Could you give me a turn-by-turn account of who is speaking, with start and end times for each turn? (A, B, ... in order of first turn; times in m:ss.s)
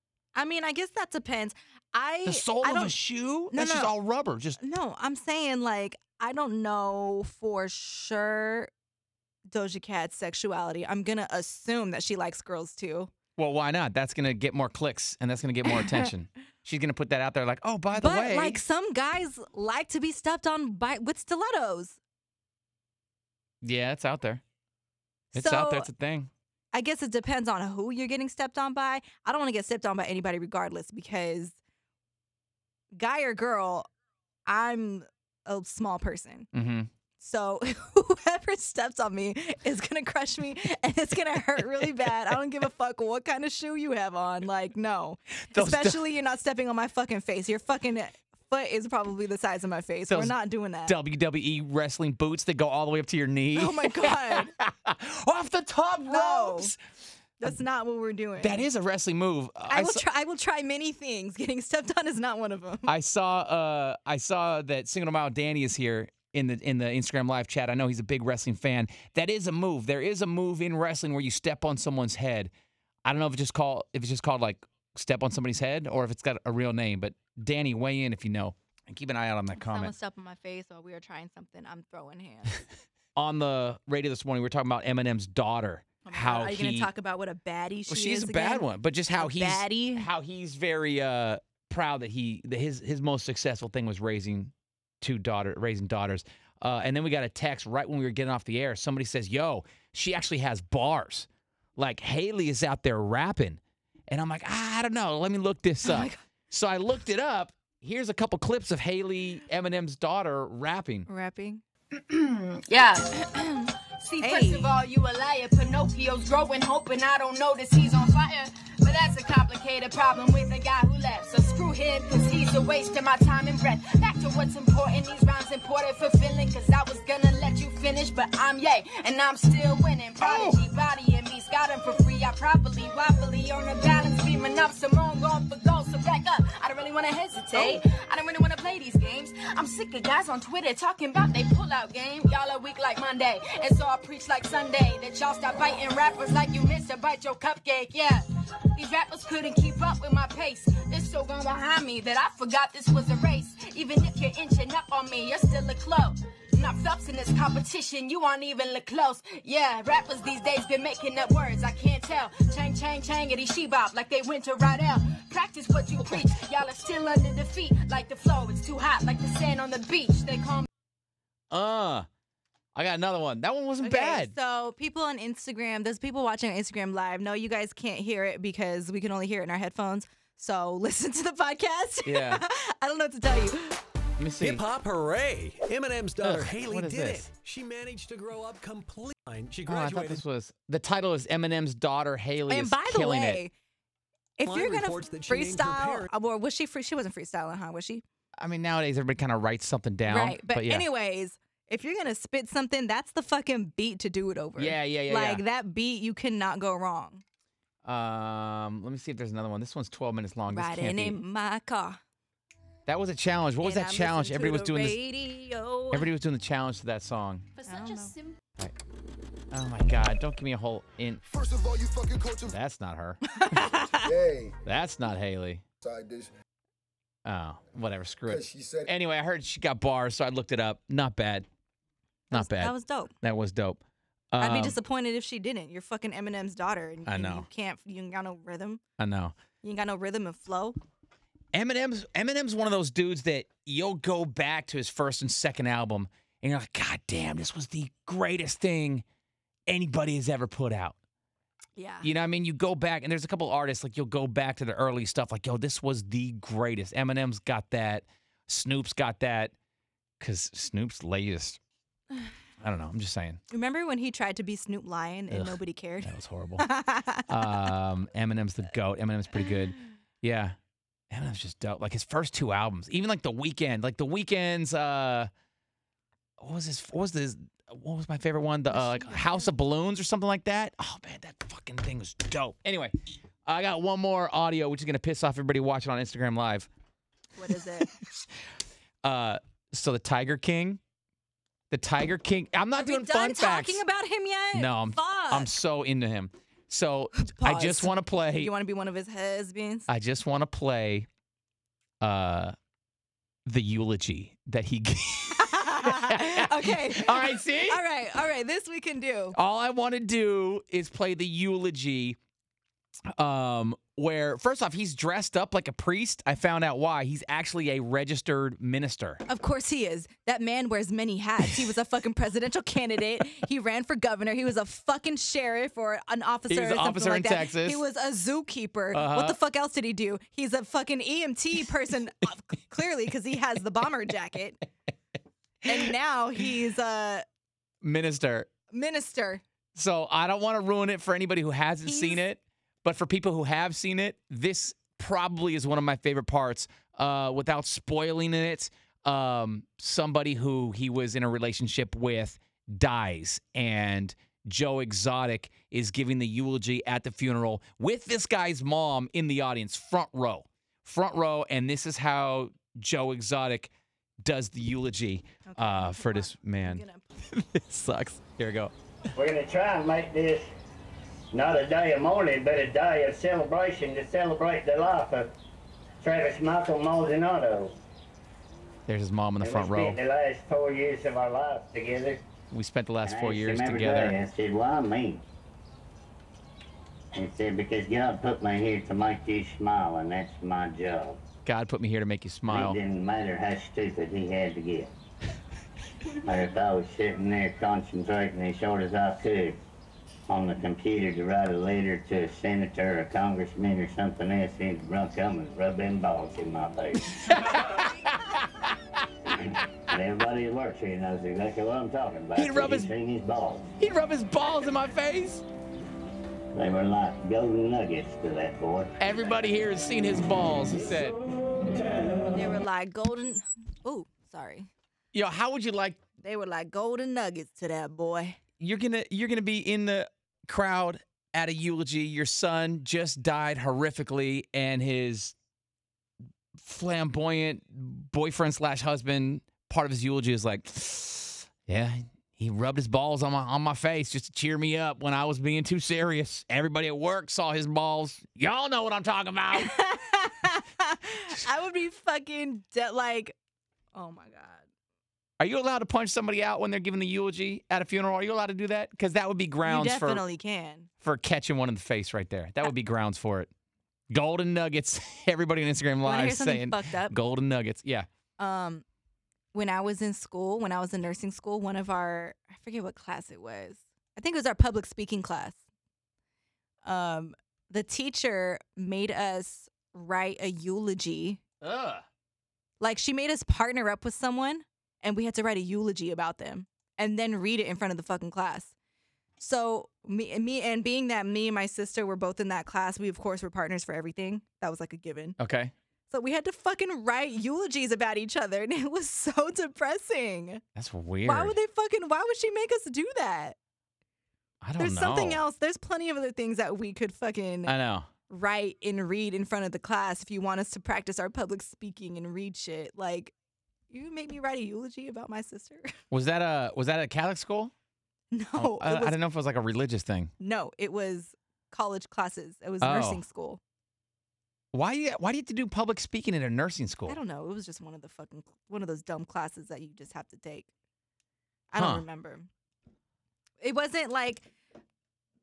0:00.4-0:02.9 A
0:02.2-0:04.6 B
0:03.5-0:03.9 A
0:04.6-0:08.7 A
0:09.5-0:13.1 A
0:13.4-0:18.6 B
0:15.6-0:16.1 A
0:17.9-0:22.0 A
0:23.6-0:24.4 B
0:25.3-0:25.9 A
0:25.3-0:26.3 B
0:26.7-0:31.6 A
0:32.9-0:33.9 A
0:34.4-0:36.5 A
0:36.5-0:36.9 B
0:37.2-0:51.0 A
0:45.5-0:46.0 B
0:50.1-0:56.8 B
0:53.5-0:54.5 A
0:56.0-0:56.7 A
0:57.4-0:58.7 A
0:58.4-1:00.0 B
0:59.7-1:02.9 A
1:02.9-1:12.5 B
1:13.0-1:19.9 B
1:19.5-1:22.6 A
1:23.2-1:26.9 B
1:26.0-1:30.1 A
1:27.9-1:51.1 B
1:45.8-1:46.2 A
1:51.1-1:51.6 A
1:52.0-1:53.3 C
1:53.1-1:54.7 A
1:54.0-2:50.7 C
2:10.2-2:10.6 A
2:17.3-2:17.8 A
2:51.5-2:52.1 B
2:52.7-2:54.3 B
2:53.8-3:03.8 A
3:02.0-3:02.4 B
3:04.2-3:04.6 B
3:04.4-3:10.2 D
3:06.2-3:07.3 B
3:09.6-3:13.4 B
3:12.5-3:13.5 A
3:14.4-3:18.0 A
3:14.4-3:16.1 D
3:18.4-3:20.8 B
3:20.1-3:27.2 A
3:24.6-3:25.4 B
3:27.8-3:31.2 B
3:30.5-3:32.0 A
3:32.8-3:35.0 B
3:33.6-3:36.1 A
3:35.9-3:37.5 B
3:37.6-3:38.2 A
3:39.5-3:41.2 B
3:41.2-3:42.6 E
3:42.5-3:43.2 B
3:43.3-3:44.1 A
3:44.0-3:44.6 E
3:44.6-3:45.6 B
3:45.8-3:46.3 E
3:47.2-3:51.5 B
3:48.3-3:48.9 E
3:52.3-3:53.8 B
3:52.3-3:53.1 A
3:54.3-3:54.8 B
3:54.4-3:58.8 A
3:57.0-3:57.5 B
3:59.0-3:59.3 B
3:59.6-4:00.8 A
4:01.5-4:09.0 B
4:09.7-4:11.0 B
4:11.8-4:12.1 A
4:12.0-4:19.5 B
4:20.2-4:21.6 B
4:22.6-4:23.4 B
4:23.5-4:27.6 A
4:25.3-4:26.7 B
4:27.3-4:30.6 B
4:31.1-4:35.3 B
4:36.4-4:42.9 B
4:38.7-4:39.5 A
4:43.4-4:46.7 B
4:47.4-4:47.9 A
4:49.0-4:50.8 B
4:51.7-4:53.8 B
4:52.8-4:55.5 A
4:54.5-4:58.5 B
4:57.2-4:59.9 A
4:59.9-5:01.1 B
5:02.0-5:02.5 B
5:03.4-5:07.8 B
5:05.3-5:09.4 A
5:09.3-5:12.2 B
5:13.1-5:19.2 B
5:19.3-5:34.6 A
5:26.5-5:27.8 B
5:28.9-5:29.4 B
5:35.6-5:37.2 A
5:37.8-5:38.5 B
5:38.7-5:39.4 A
5:39.7-6:03.7 B
5:41.8-5:42.2 A
6:04.2-6:08.7 B
6:05.4-6:07.1 A
6:09.1-6:10.5 F
6:11.3-6:15.3 F
6:16.0-6:17.7 F
6:18.9-6:20.0 B
6:19.4-6:22.2 F
6:22.5-6:24.2 B
6:23.0-6:25.2 F
6:27.1-6:31.2 F
6:31.4-6:32.8 B
6:32.5-6:34.9 F
6:36.2-6:39.6 F
6:40.3-6:47.4 F
6:47.1-6:49.6 B
6:49.3-6:53.7 F
6:52.3-6:52.9 B
6:53.8-6:55.4 B
6:56.5-6:59.4 F
6:59.0-7:01.2 B
7:02.3-7:04.7 A
7:05.1-7:06.0 B
7:06.2-7:08.4 A
7:08.6-7:15.3 B
7:16.6-7:29.7 B
7:29.5-7:33.3 A
7:33.9-7:34.6 A
7:35.4-7:40.2 B
7:39.6-7:40.9 A
7:41.0-7:43.5 B
7:44.1-7:48.1 B
7:46.0-7:47.2 A
7:48.4-7:48.8 A
7:49.5-7:55.6 A
7:56.8-8:01.4 A
8:01.6-8:02.0 B
8:02.8-8:08.7 A
8:09.4-8:15.4 A
8:15.4-8:15.7 B
8:16.1-8:20.6 A
8:20.7-8:21.6 B
8:21.2-8:23.6 A
8:24.6-8:25.4 B
8:24.8-8:27.7 A
8:27.6-8:28.1 B
8:28.3-8:33.3 A
8:33.9-8:35.9 A
8:36.1-8:37.7 B
8:38.3-8:39.2 A
8:38.6-8:40.3 B
8:40.4-8:43.6 A
8:42.8-8:43.2 B
8:44.7-8:47.2 B
8:47.1-8:50.7 A
8:51.7-8:52.5 A
8:51.8-8:52.0 B
8:53.6-8:54.5 A